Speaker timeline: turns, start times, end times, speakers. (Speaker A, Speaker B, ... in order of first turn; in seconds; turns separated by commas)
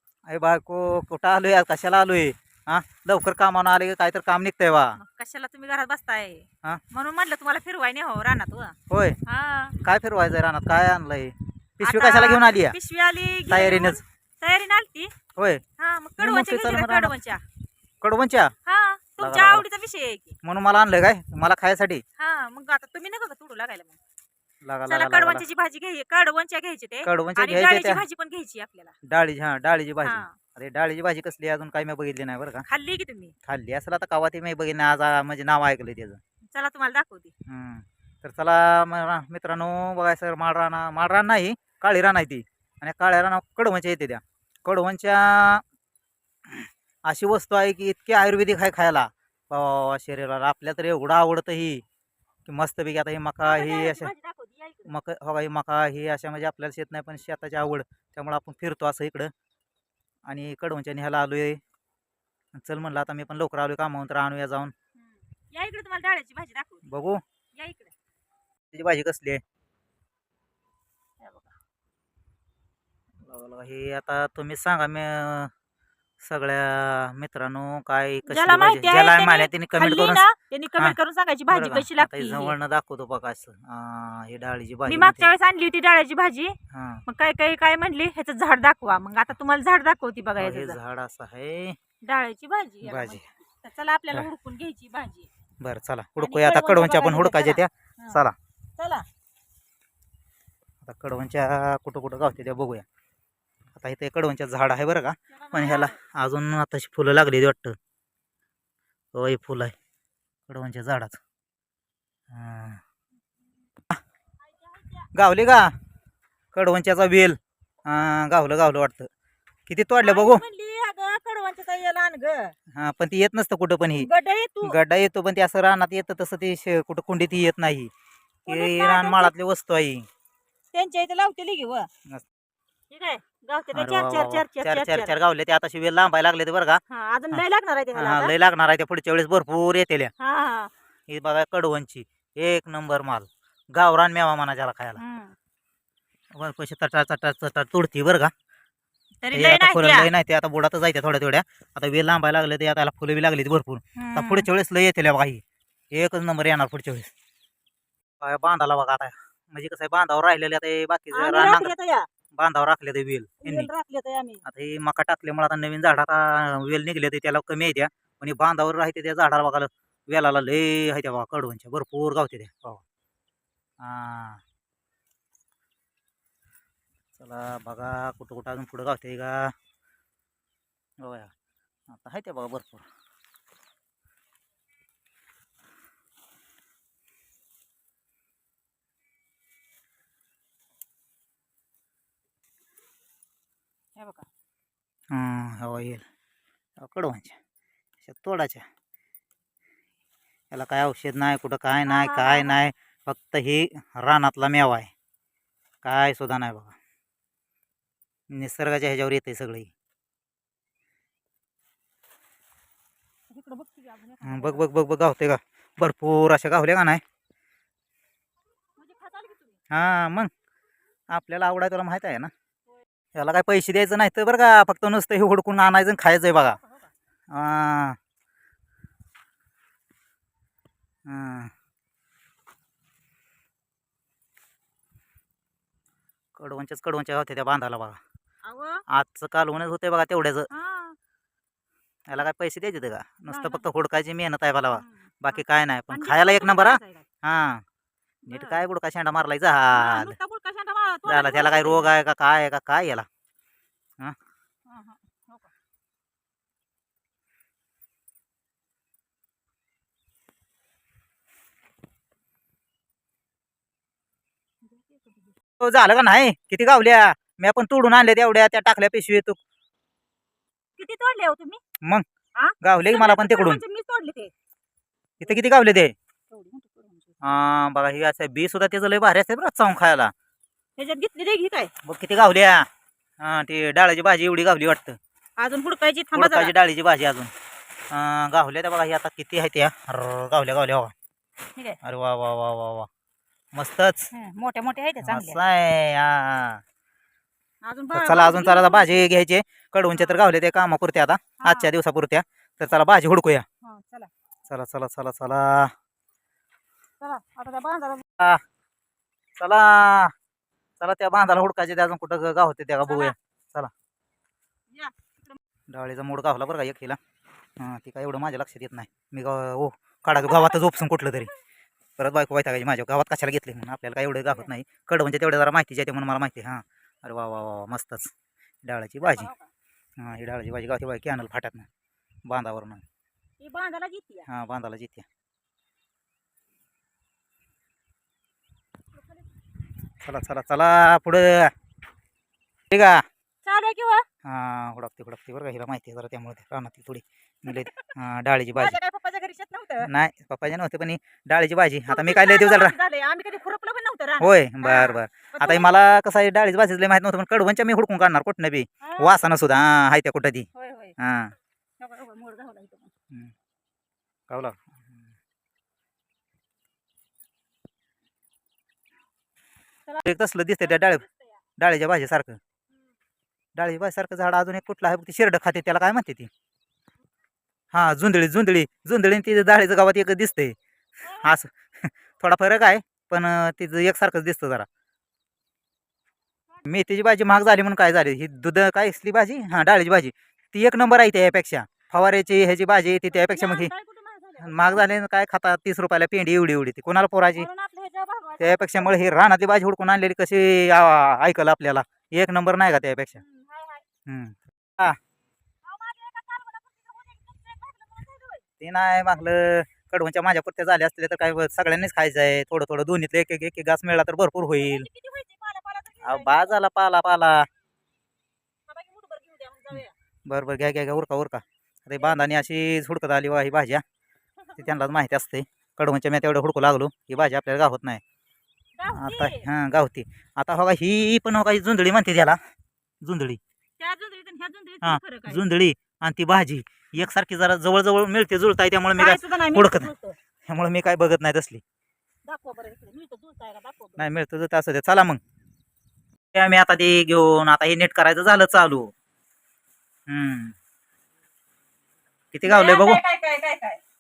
Speaker A: 0.3-5.0, Speaker B: 5.0-9.8, Speaker A: 8.9-9.2, Speaker A: 9.8-12.8, Speaker B: 11.8-15.1, Speaker A: 13.5-14.0, Speaker A: 15.3-15.6, Speaker B: 15.8-17.4, Speaker A: 16.2-17.1, Speaker A: 18.0-18.5, Speaker B: 18.6-20.4, Speaker A: 19.2-19.6, Speaker A: 20.4-22.0, Speaker B: 22.2-23.9, Speaker A: 24.6-25.4, Speaker B: 24.9-28.9, Speaker A: 27.0-28.0, Speaker A: 29.1-32.6, Speaker B: 30.0-30.4, Speaker B: 32.7-33.3, Speaker A: 33.5-36.2, Speaker B: 36.5-37.3, Speaker A: 37.5-45.6, Speaker A: 46.5-51.8, Speaker A: 52.5-54.1, Speaker B: 53.4-54.9, Speaker A: 54.9-59.3, Speaker A: 60.3-61.6, Speaker A: 62.5-64.7, Speaker B: 65.5-66.8, Speaker A: 66.8-67.2, Speaker B: 67.6-67.9, Speaker A: 68.7-69.4, Speaker B: 71.2-71.5, Speaker A: 73.2-75.5, Speaker A: 76.2-80.2, Speaker B: 78.2-82.5, Speaker A: 81.5-85.3, Speaker B: 84.8-90.8, Speaker A: 86.7-87.0, Speaker A: 90.4-91.8, Speaker B: 92.0-95.3, Speaker A: 92.8-93.2, Speaker A: 95.6-98.3, Speaker B: 96.2-98.2, Speaker B: 98.8-99.0, Speaker A: 100.8-102.8, Speaker A: 103.8-107.8, Speaker B: 105.4-106.0, Speaker A: 109.1-109.7, Speaker A: 110.5-111.2, Speaker A: 112.3-112.8, Speaker B: 114.6-115.1, Speaker A: 115.1-115.7, Speaker A: 116.5-119.1, Speaker A: 119.7-120.4, Speaker B: 120.0-122.5, Speaker A: 122.7-124.1, Speaker B: 124.0-124.8, Speaker A: 124.6-127.9, Speaker B: 128.4-129.3, Speaker A: 128.5-130.1, Speaker B: 130.7-131.9, Speaker B: 132.9-135.2, Speaker A: 133.7-136.8, Speaker B: 136.9-138.3, Speaker A: 137.9-140.1, Speaker B: 140.2-140.7, Speaker A: 141.1-145.0, Speaker B: 144.9-145.3, Speaker A: 146.3-148.3, Speaker B: 149.2-150.1, Speaker A: 149.3-157.1, Speaker B: 153.9-154.5, Speaker A: 158.2-161.7, Speaker B: 161.1-162.1, Speaker A: 162.3-163.7, Speaker B: 163.4-164.4, Speaker A: 164.4-172.8, Speaker A: 173.8-174.4, Speaker A: 177.2-179.5, Speaker A: 181.0-181.3, Speaker A: 181.9-182.9, Speaker B: 193.9-194.2, Speaker A: 195.1-196.0, Speaker A: 196.8-197.4, Speaker A: 198.0-198.6, Speaker A: 200.5-204.9, Speaker B: 201.8-202.6, Speaker A: 205.8-206.7, Speaker A: 208.3-209.7, Speaker B: 213.3-214.6, Speaker A: 214.2-217.0, Speaker B: 218.8-219.6, Speaker A: 219.7-220.3, Speaker A: 221.1-222.3, Speaker A: 223.1-226.6, Speaker B: 226.6-226.9, Speaker A: 227.3-228.0, Speaker A: 231.1-231.5, Speaker A: 236.3-238.0, Speaker B: 238.4-238.8, Speaker A: 238.9-240.5, Speaker B: 240.5-241.0, Speaker A: 242.1-247.6, Speaker B: 243.3-243.6, Speaker B: 244.7-247.0, Speaker B: 248.3-248.6, Speaker A: 248.3-250.1, Speaker B: 249.7-251.9, Speaker A: 251.1-253.1, Speaker B: 254.7-255.5, Speaker B: 264.7-265.3, Speaker A: 265.6-269.4, Speaker B: 270.8-271.6, Speaker B: 272.4-274.3, Speaker A: 272.6-273.6, Speaker B: 275.2-275.5, Speaker A: 275.2-275.9, Speaker B: 276.3-277.4, Speaker A: 277.2-280.1, Speaker B: 280.8-281.7, Speaker A: 281.8-282.6, Speaker A: 283.2-285.0, Speaker B: 285.4-286.5, Speaker A: 286.1-287.3, Speaker A: 287.9-290.9, Speaker A: 291.8-292.9, Speaker A: 293.5-294.1, Speaker B: 294.1-295.4, Speaker A: 295.0-296.6, Speaker B: 297.6-299.1, Speaker A: 297.9-303.4, Speaker B: 301.4-301.7, Speaker B: 303.6-304.1, Speaker A: 304.5-305.7, Speaker B: 307.0-308.0, Speaker A: 309.4-310.1, Speaker A: 310.8-313.7, Speaker B: 312.8-313.1, Speaker B: 314.7-315.4, Speaker A: 315.7-317.0, Speaker A: 317.6-321.3, Speaker B: 320.3-320.6, Speaker A: 322.0-328.1, Speaker A: 328.6-329.3, Speaker B: 329.0-329.5, Speaker A: 330.0-331.7, Speaker A: 332.3-332.8, Speaker B: 333.4-334.2, Speaker A: 334.3-335.1, Speaker A: 340.0-341.5, Speaker A: 342.7-343.0, Speaker B: 343.4-344.0, Speaker A: 344.2-348.8, Speaker B: 347.5-347.9, Speaker B: 348.5-349.9, Speaker A: 349.8-352.7, Speaker B: 351.9-355.8, Speaker A: 354.2-360.5, Speaker B: 358.8-359.1, Speaker B: 360.5-360.9, Speaker A: 361.0-361.3, Speaker B: 361.8-362.9, Speaker A: 364.3-364.8, Speaker A: 370.0-371.0, Speaker B: 370.6-371.3, Speaker A: 371.6-372.4, Speaker A: 373.6-376.3, Speaker A: 377.7-380.6, Speaker B: 381.0-381.3, Speaker A: 381.1-384.7, Speaker A: 386.6-393.7, Speaker B: 393.1-394.9, Speaker A: 394.4-397.5, Speaker B: 397.3-399.0, Speaker A: 398.4-403.2, Speaker B: 403.2-403.8, Speaker A: 404.1-405.0, Speaker B: 405.6-408.4, Speaker A: 408.6-414.9, Speaker B: 414.6-416.6, Speaker A: 416.0-417.5, Speaker B: 418.7-419.9, Speaker A: 420.3-423.8, Speaker B: 422.0-422.3, Speaker B: 424.5-424.8, Speaker A: 424.6-428.0, Speaker B: 428.8-429.4, Speaker A: 428.9-432.4, Speaker A: 433.0-433.4, Speaker B: 433.8-435.4, Speaker A: 434.8-439.9, Speaker B: 439.0-440.1, Speaker A: 440.5-441.6, Speaker B: 442.2-444.1, Speaker A: 444.0-445.2, Speaker A: 446.3-448.9, Speaker A: 450.1-450.5, Speaker A: 452.3-453.0, Speaker B: 452.4-453.8